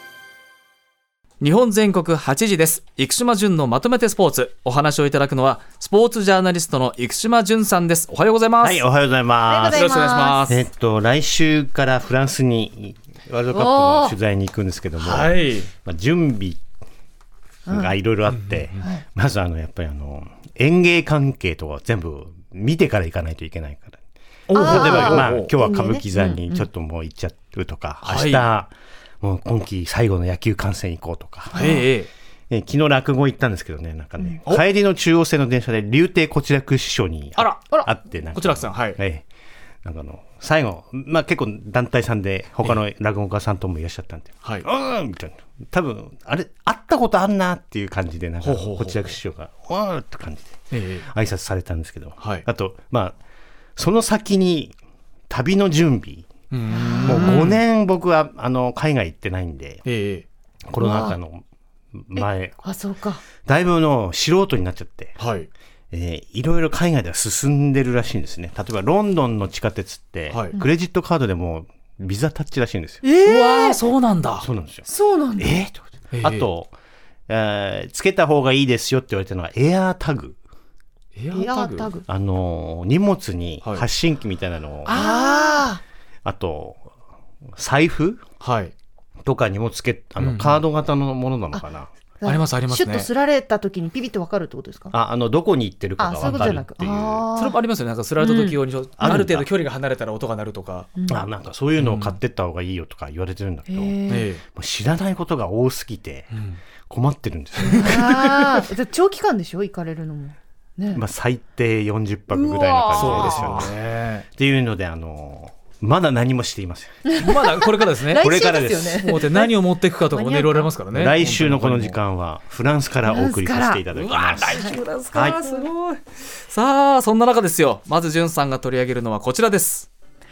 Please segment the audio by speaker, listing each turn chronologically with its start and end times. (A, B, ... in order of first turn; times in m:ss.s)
0:01.4-0:08.8 A
0:08.6-0:09.9 B
0:09.5-0:10.5 C
0:09.7-0:10.7 A
0:10.5-0:16.6 B
0:13.5-0:14.2 C
0:15.0-0:15.7 A
0:17.7-0:18.0 C
0:17.7-0:24.0 B
0:24.5-0:25.5 A
0:24.5-0:26.7 C
0:24.6-0:31.6 B
0:28.0-0:28.5 A
0:31.5-0:31.9 C
0:31.6-0:32.1 A
0:32.5-0:39.2 B
0:37.4-0:37.6 A
0:38.3-0:39.0 A
0:39.8-0:53.2 B
0:48.4-0:49.2 A
0:50.7-0:51.1 A
0:52.2-0:52.5 A
0:53.8-0:54.8 B
0:55.3-0:56.3 B
0:56.5-0:57.6 A
0:56.7-0:57.5 C
0:57.0-0:59.8 B
0:59.8-1:00.3 A
1:00.7-1:02.6 B
1:00.8-1:01.2 C
1:02.2-1:03.2 C
1:03.4-1:05.2 B
1:05.2-1:05.5 A
1:05.9-1:13.0 B
1:13.0-1:14.5 A
1:13.2-1:13.8 C
1:14.4-1:16.7 B
1:14.9-1:15.6 C
1:16.1-1:16.5 A
1:17.3-1:20.4 B
1:21.2-1:21.9 A
1:21.3-1:22.0 C
1:22.1-1:25.6 B
1:23.6-1:23.9 A
1:24.8-1:25.8 C
1:26.2-1:26.9 B
1:27.6-1:28.2 B
1:28.4-1:28.7 A
1:29.2-1:31.9 B
1:30.2-1:30.6 A
1:32.2-1:34.9 C
1:32.2-1:33.1 A
1:34.9-1:37.3 B
1:36.0-1:37.6 C
1:36.2-1:36.6 A
1:37.4-1:40.9 A
1:38.2-1:39.2 C
1:39.0-1:39.5 B
1:41.0-1:41.3 C
1:41.1-1:44.0 B
1:41.8-1:42.2 A
1:43.7-1:44.3 C
1:44.1-1:44.4 A
1:44.5-1:46.3 B
1:46.3-1:46.6 A
1:46.9-1:48.5 B
1:47.7-1:51.0 C
1:50.9-1:53.8 B
1:52.3-1:53.6 C
1:52.9-1:54.3 A
1:54.4-1:57.0 B
1:57.0-2:00.7 C
1:57.2-1:58.3 A
1:58.2-1:59.0 B
1:58.9-2:02.0 A
2:00.9-2:05.6 B
2:03.0-2:03.8 C
2:03.9-2:09.9 A